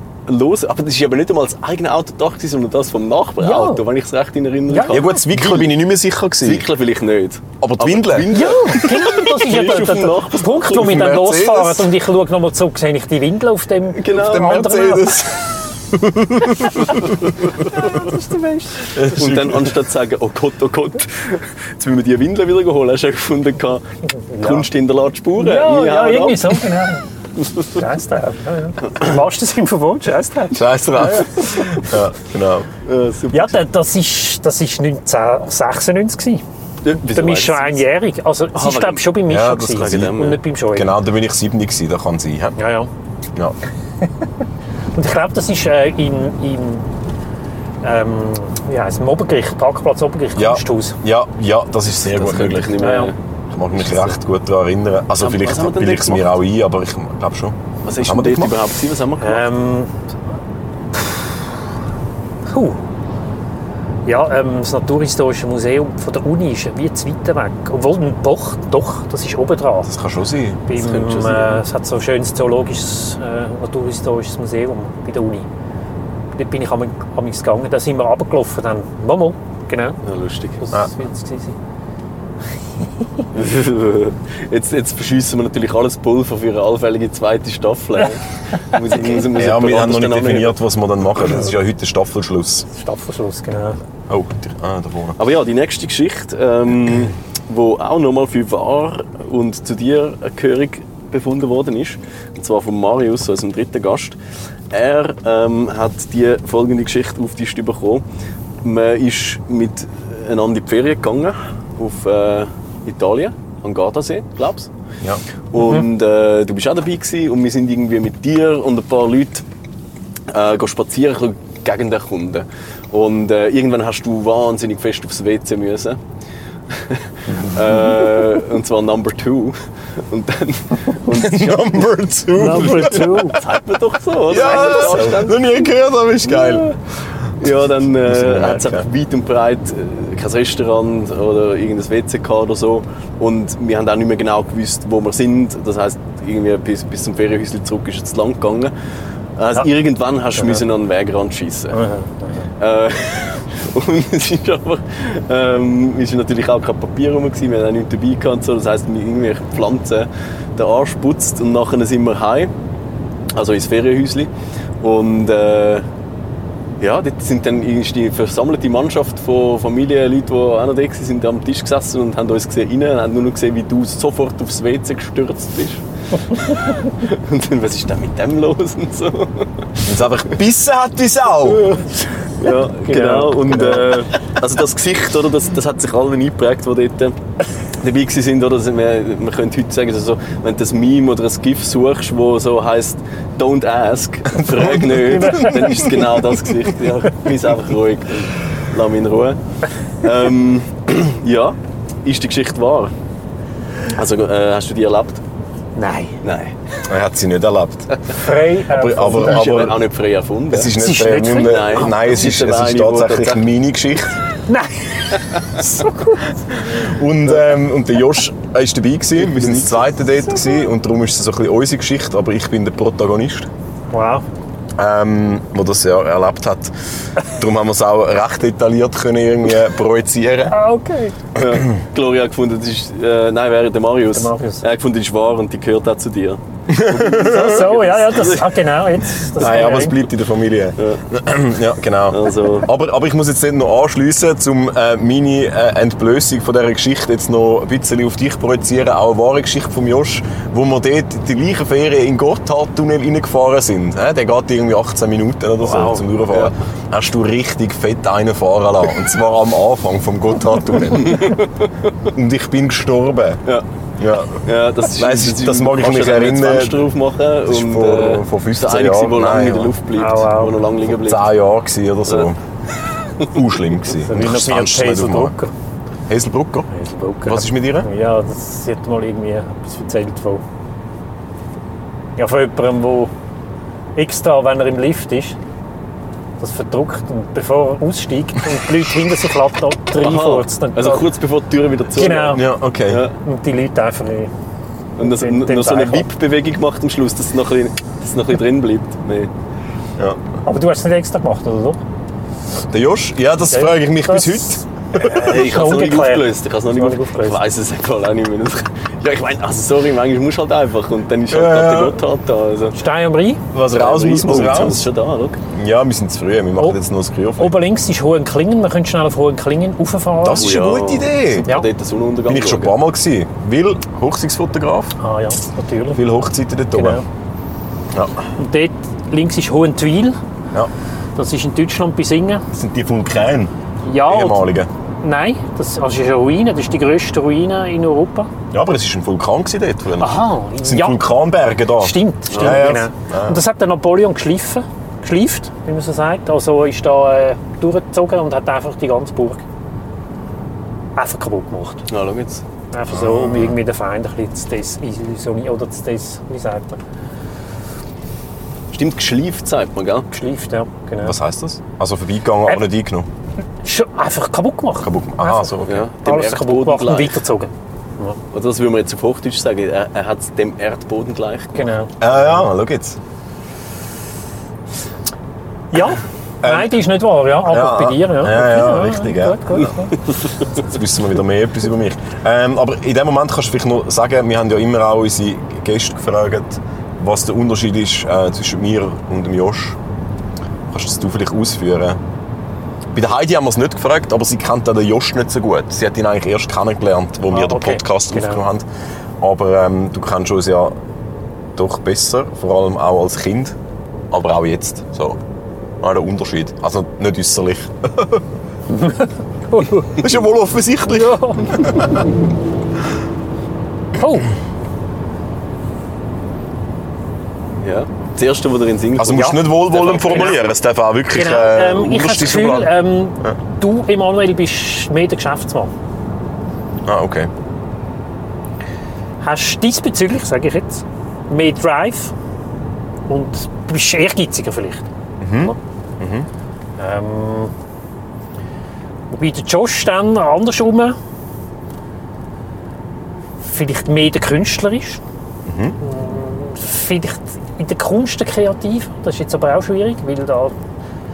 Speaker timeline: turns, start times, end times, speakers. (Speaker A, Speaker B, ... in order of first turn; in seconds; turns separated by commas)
Speaker A: 0.3-5.7, Speaker B: 3.4-3.8, Speaker B: 4.7-5.0, Speaker C: 4.9-6.7, Speaker A: 6.4-11.2, Speaker C: 7.6-8.9, Speaker B: 8.3-15.3, Speaker C: 10.7-11.9, Speaker A: 13.9-14.8, Speaker C: 14.2-17.2, Speaker A: 17.4-23.9, Speaker B: 18.0-18.4, Speaker C: 18.9-19.8, Speaker B: 24.1-24.7, Speaker A: 24.4-26.6, Speaker B: 25.4-27.0, Speaker B: 27.6-31.8, Speaker C: 30.5-32.7, Speaker A: 32.8-33.6, Speaker B: 33.3-36.4, Speaker A: 36.8-37.8, Speaker B: 37.1-40.9, Speaker A: 38.6-39.1, Speaker C: 39.3-40.2, Speaker A: 39.8-40.4, Speaker C: 40.7-42.6, Speaker B: 42.6-42.9, Speaker B: 44.9-46.9, Speaker B: 47.8-51.0, Speaker C: 50.4-52.9, Speaker A: 52.1-53.1, Speaker B: 52.8-53.1, Speaker C: 53.5-58.6, Speaker A: 53.8-54.1, Speaker A: 55.2-56.3, Speaker A: 57.8-59.5, Speaker B: 59.2-59.9, Speaker B: 62.5-62.8, Speaker B: 64.1-69.9, Speaker C: 69.9-70.6, Speaker B: 70.7-75.5, Speaker A: 70.7-71.6, Speaker B: 76.3-80.0, Speaker A: 80.0-80.6, Speaker B: 80.6-81.6, Speaker A: 83.3-90.6, Speaker C: 89.3-92.7, Speaker B: 92.7-93.8, Speaker C: 94.1-95.2, Speaker A: 95.2-104.2, Speaker A: 104.7-108.0, Speaker A: 108.6-114.7, Speaker A: 115.5-119.5, Speaker B: 115.6-115.8, Speaker A: 120.3-126.0, Speaker A: 126.7-131.9, Speaker C: 131.1-133.4, Speaker B: 132.3-133.4, Speaker A: 132.5-135.5, Speaker C: 134.3-136.7, Speaker B: 134.4-134.9, Speaker A: 136.2-136.8, Speaker A: 137.4-148.7, Speaker C: 137.4-138.9, Speaker A: 149.4-151.8, Speaker B: 150.4-150.6, Speaker B: 151.7-152.5, Speaker A: 152.6-162.5, Speaker A: 163.3-165.9, Speaker A: 166.8-179.9, Speaker C: 179.8-181.8, Speaker A: 181.5-187.2, Speaker B: 182.9-183.8, Speaker A: 187.8-199.4, Speaker C: 194.5-195.7, Speaker B: 194.6-196.1, Speaker A: 200.0-202.9, Speaker A: 203.9-205.2, Speaker B: 205.8-206.2, Speaker A: 206.2-206.6, Speaker C: 206.9-208.1, Speaker B: 208.1-209.5, Speaker C: 208.7-209.8, Speaker A: 209.1-213.4, Speaker C: 210.5-214.2, Speaker B: 210.7-212.0, Speaker B: 214.5-216.3, Speaker C: 216.5-223.5, Speaker A: 219.3-219.7, Speaker B: 223.9-224.2, Speaker C: 224.8-230.6, Speaker B: 230.5-231.2, Speaker A: 231.3-238.6, Speaker B: 234.1-234.6, Speaker C: 236.7-237.6, Speaker B: 237.0-240.0, Speaker C: 239.4-261.4, Speaker A: 240.8-241.0, Speaker A: 242.1-242.7, Speaker A: 255.6-256.6, Speaker A: 261.0-261.5, Speaker C: 262.1-263.4, Speaker C: 264.0-266.9, Speaker A: 264.4-271.3, Speaker C: 267.5-269.8, Speaker B: 269.9-270.6, Speaker C: 270.9-272.4, Speaker C: 273.2-275.3, Speaker B: 273.9-275.5, Speaker C: 276.1-276.7, Speaker B: 276.7-280.4, Speaker C: 277.2-277.9, Speaker B: 282.2-283.1, Speaker B: 284.0-285.4, Speaker B: 286.4-291.1, Speaker A: 290.0-293.1, Speaker B: 291.9-292.5, Speaker C: 292.3-293.0, Speaker B: 293.2-294.3, Speaker A: 295.0-299.3, Speaker B: 295.0-296.1, Speaker B: 300.4-301.8, Speaker C: 302.7-305.2, Speaker B: 303.5-307.4, Speaker A: 304.9-312.8, Speaker C: 311.3-312.0, Speaker B: 312.8-313.4, Speaker C: 313.5-314.9, Speaker A: 313.8-315.4, Speaker C: 315.5-317.6, Speaker B: 317.4-320.5, Speaker C: 320.2-321.5, Speaker A: 320.3-322.7, Speaker C: 322.3-325.0, Speaker B: 325.0-326.0, Speaker C: 325.9-327.0, Speaker B: 326.7-327.1, Speaker C: 327.9-328.3, Speaker B: 328.4-330.2, Speaker B: 331.2-332.4, Speaker C: 332.5-333.5, Speaker B: 333.8-334.5, Speaker C: 334.1-334.7, Speaker B: 335.0-338.3, Speaker C: 338.5-343.4, Speaker B: 340.0-341.0, Speaker B: 341.8-349.4, Speaker A: 342.3-342.8, Speaker B: 351.0-351.8, Speaker A: 351.9-352.4, Speaker B: 352.7-356.8, Speaker C: 352.9-353.6, Speaker A: 358.7-360.1, Speaker B: 360.1-361.2, Speaker C: 361.0-363.1, Speaker B: 363.6-368.2, Speaker C: 364.8-365.9, Speaker A: 365.7-367.2, Speaker A: 368.3-371.7, Speaker B: 371.6-372.1, Speaker C: 372.0-373.0, Speaker B: 375.7-380.0, Speaker C: 376.4-376.8, Speaker C: 377.5-379.7, Speaker C: 380.5-389.8, Speaker C: 390.7-392.0, Speaker C: 392.9-398.7, Speaker B: 397.3-398.5, Speaker C: 399.2-400.8, Speaker C: 401.6-403.6, Speaker C: 404.1-405.2, Speaker C: 405.8-408.2, Speaker B: 408.8-410.1, Speaker C: 410.0-411.9, Speaker B: 410.9-411.9, Speaker B: 414.0-414.3, Speaker A: 417.6-420.5, Speaker C: 419.0-423.4, Speaker B: 419.1-420.5, Speaker B: 421.1-425.7, Speaker C: 426.9-427.3, Speaker B: 429.2-432.1, Speaker B: 433.1-434.9, Speaker C: 435.2-436.3, Speaker B: 436.8-437.5, Speaker B: 439.1-441.0, Speaker B: 443.4-445.0, Speaker C: 445.5-445.8, Speaker B: 445.8-450.6